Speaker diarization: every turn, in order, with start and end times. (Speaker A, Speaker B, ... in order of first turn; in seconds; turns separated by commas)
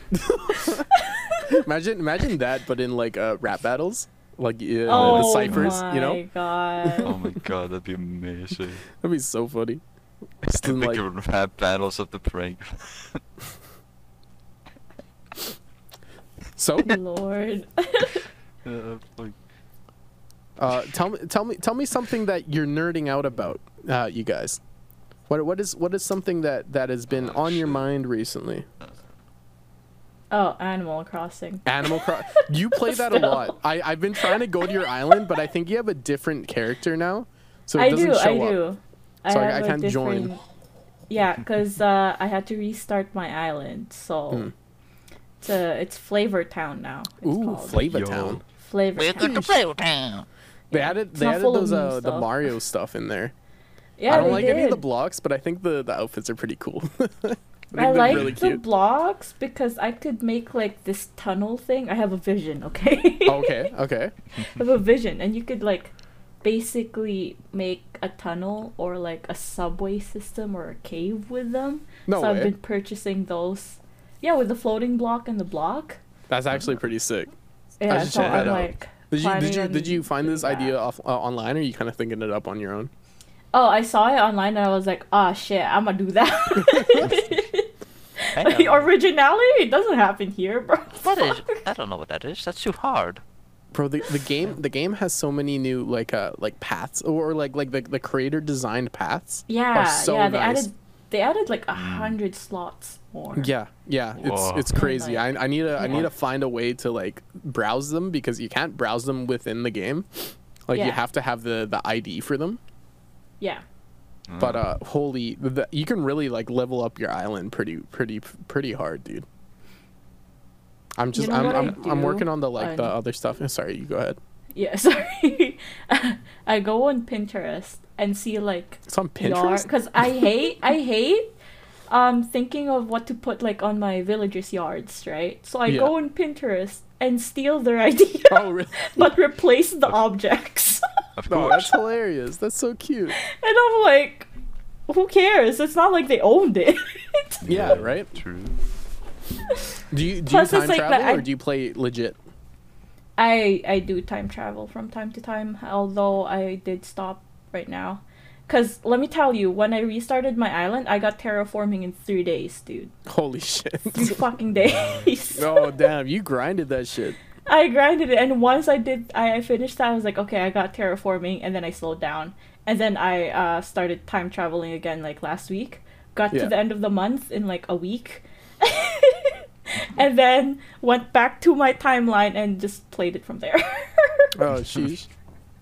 Speaker A: 0.1-0.9, Speaker B: 0.9-1.5, Speaker A: 1.4-6.2, Speaker B: 4.9-7.1, Speaker C: 4.9-5.7, Speaker A: 6.8-7.4, Speaker C: 7.0-8.8, Speaker A: 8.9-9.8, Speaker A: 10.4-11.0, Speaker C: 10.6-13.2, Speaker A: 16.6-17.0, Speaker B: 16.8-18.3, Speaker C: 18.6-19.4, Speaker A: 20.6-24.6, Speaker A: 25.3-28.7, Speaker C: 27.1-27.9, Speaker B: 30.3-33.5, Speaker A: 31.6-38.6, Speaker B: 34.2-35.3, Speaker B: 37.8-40.4, Speaker A: 39.3-40.3, Speaker B: 41.1-44.5, Speaker B: 45.4-47.9, Speaker A: 47.2-48.4, Speaker C: 47.9-48.4, Speaker B: 48.6-49.5, Speaker C: 49.0-50.3, Speaker A: 49.2-49.6, Speaker B: 50.7-52.4, Speaker A: 50.7-53.3, Speaker B: 54.0-54.8, Speaker A: 54.1-58.6, Speaker B: 57.8-63.7, Speaker C: 58.1-58.4, Speaker A: 63.3-64.2, Speaker B: 64.4-65.9, Speaker B: 66.4-76.0, Speaker A: 72.1-72.5, Speaker A: 76.3-77.3, Speaker B: 77.8-80.7, Speaker A: 77.9-82.9, Speaker C: 78.0-78.6, Speaker B: 83.5-91.6, Speaker A: 86.6-87.1, Speaker C: 88.3-88.9, Speaker C: 91.0-93.2, Speaker A: 93.7-100.7, Speaker B: 99.5-103.5, Speaker C: 101.7-102.2, Speaker A: 103.3-112.6, Speaker C: 104.2-104.7, Speaker B: 104.7-106.1, Speaker B: 110.7-111.0, Speaker C: 114.3-114.7, Speaker A: 114.4-119.2, Speaker A: 121.0-124.2, Speaker B: 121.2-122.9, Speaker B: 124.5-131.3, Speaker A: 128.9-130.3, Speaker B: 131.9-140.8, Speaker A: 135.7-135.9, Speaker A: 138.3-139.1, Speaker C: 141.2-141.8, Speaker A: 141.3-143.2, Speaker B: 143.2-144.3, Speaker B: 144.9-147.4, Speaker C: 147.4-148.6, Speaker A: 147.4-148.1, Speaker A: 149.9-152.2, Speaker B: 150.3-151.2, Speaker B: 153.2-162.9, Speaker A: 163.1-164.2, Speaker B: 163.9-165.9, Speaker A: 165.3-167.2, Speaker B: 167.5-184.4, Speaker A: 184.4-185.1